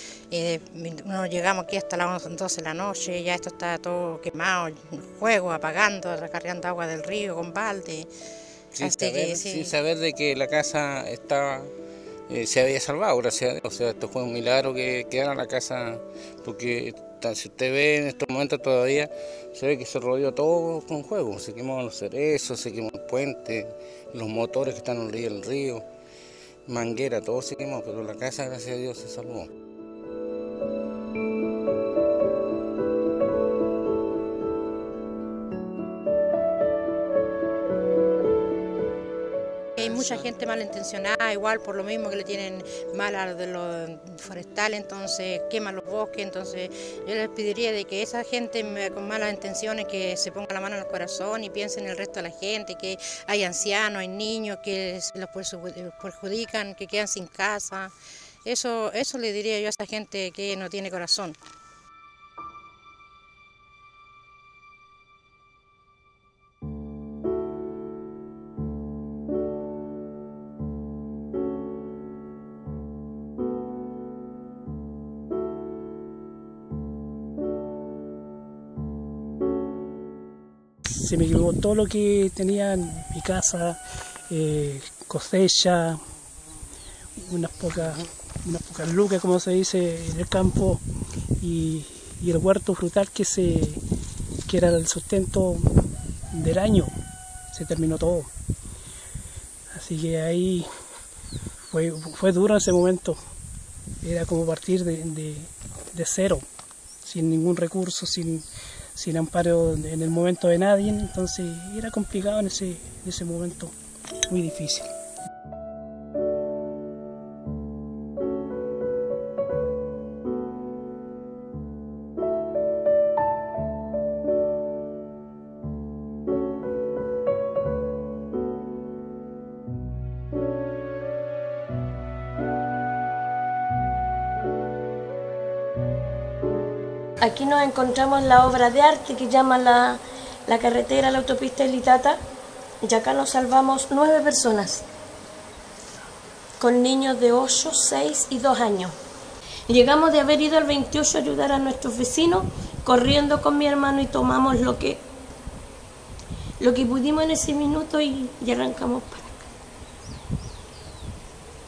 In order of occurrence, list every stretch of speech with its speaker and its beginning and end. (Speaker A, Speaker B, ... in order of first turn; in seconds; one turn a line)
Speaker A: 0.3-8.1
Speaker B: 8.8-11.7
Speaker A: 8.8-9.7
Speaker B: 12.3-25.9
Speaker B: 26.7-29.5
Speaker A: 39.8-57.9
Speaker A: 58.5-61.4
Speaker C: 81.0-86.0
Speaker C: 87.2-90.8
Speaker C: 91.4-93.8
Speaker C: 94.5-95.7
Speaker C: 96.3-96.9
Speaker C: 97.5-98.3
Speaker C: 99.7-100.7
Speaker C: 101.7-103.2
Speaker C: 104.0-106.5
Speaker C: 107.0-108.4
Speaker C: 109.0-113.7
Speaker C: 114.3-114.9
Speaker D: 137.2-142.2
Speaker D: 142.8-144.8
Speaker D: 146.6-148.9
Speaker D: 149.7-155.0
Speaker D: 156.6-159.5